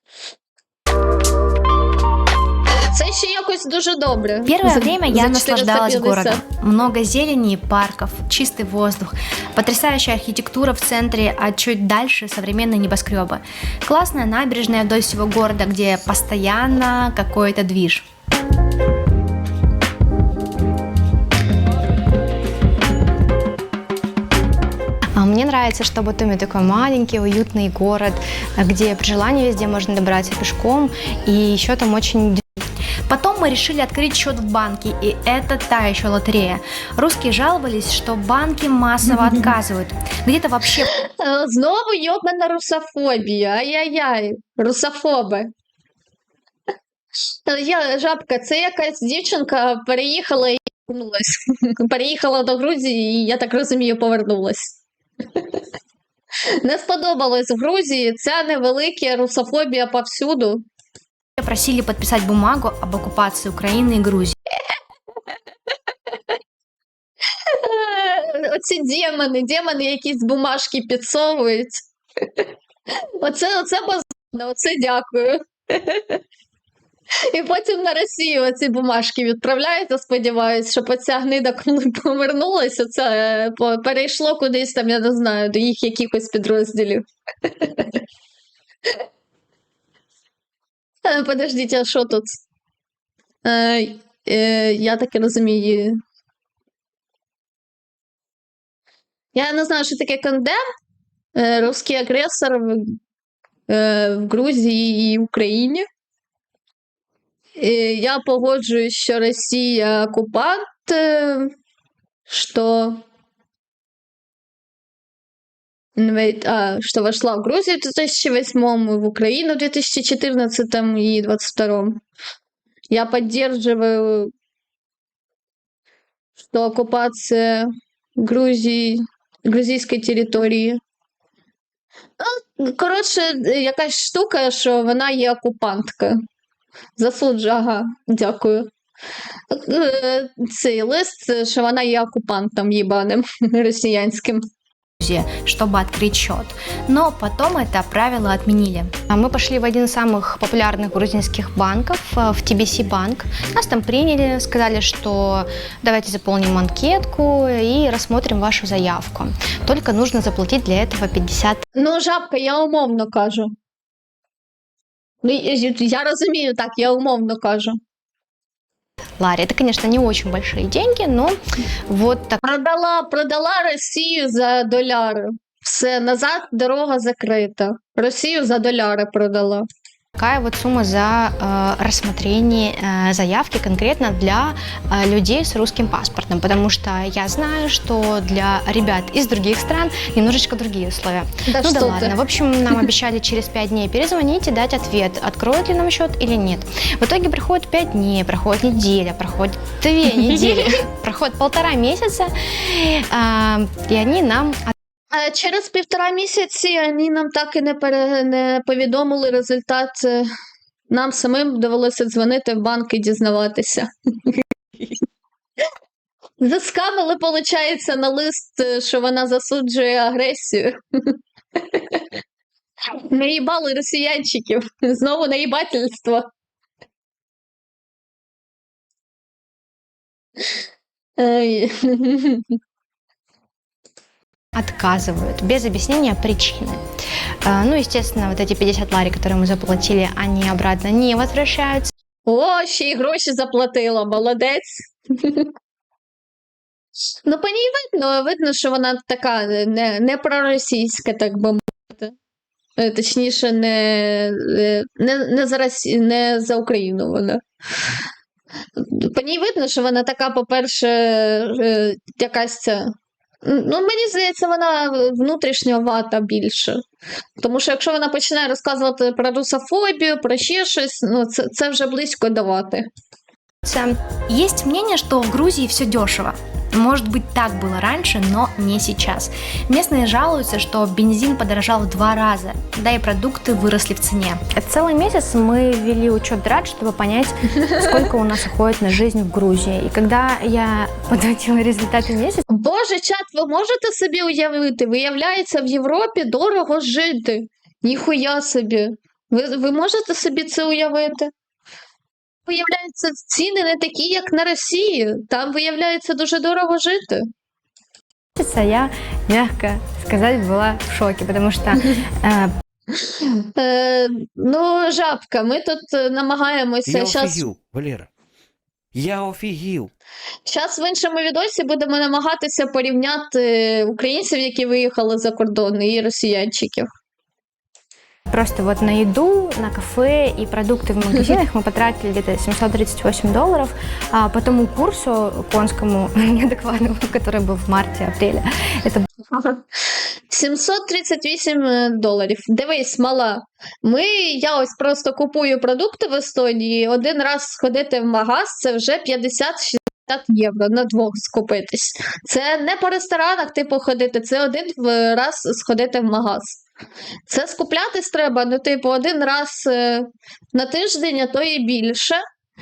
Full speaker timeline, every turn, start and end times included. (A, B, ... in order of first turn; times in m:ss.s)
0:02.9-0:06.4 A
0:04.5-0:18.1 B
0:25.2-0:32.4 C
0:33.1-0:40.9 B
0:40.9-0:45.5 A
0:47.4-0:54.8 A
0:55.3-0:55.6 A
0:56.5-1:00.6 A
1:01.4-1:04.4 B
1:07.3-1:16.2 A
1:17.2-1:28.0 A
1:31.0-1:32.4 A
1:33.4-1:36.0 A
1:39.4-1:40.6 A
1:41.4-1:43.0 A
1:43.7-1:45.9 A
1:47.6-1:51.5 A
1:52.3-1:53.0 A
1:56.0-2:02.0 A
2:02.9-2:04.3 A
2:06.4-2:10.8 A
2:12.2-2:16.2 A
2:17.0-2:18.7 A
2:19.5-2:24.5 A
2:25.0-2:28.9 B
2:29.1-2:41.6 C
2:41.8-2:43.5 A
2:45.2-2:47.8 A
2:49.2-2:52.4 C
2:52.4-2:59.7 A
3:00.2-3:24.8 C
3:11.5-3:12.2 A
3:20.2-3:20.8 A
3:25.1-3:30.3 A
3:30.9-3:35.0 A
3:36.4-3:42.1 A
3:42.9-3:46.3 A
3:51.2-3:52.6 A
3:54.5-3:56.8 C
3:57.4-4:01.9 C
4:02.3-4:05.5 A
4:07.2-4:12.2 A
4:12.8-4:18.0 A
4:18.8-4:26.8 A
4:27.4-4:32.9 A
4:33.6-4:34.0 C
4:34.3-4:44.4 B
4:44.5-4:52.4 C
4:47.7-4:48.1 A
4:52.5-5:01.3 A
5:02.5-5:07.3 A
5:08.4-5:12.5 C
5:13.0-5:17.4 A
5:16.9-5:18.1 D
5:18.9-5:19.9 D
5:20.5-5:26.9 A
5:28.3-5:39.1 C
5:39.3-5:56.6 A
5:57.3-6:02.2 A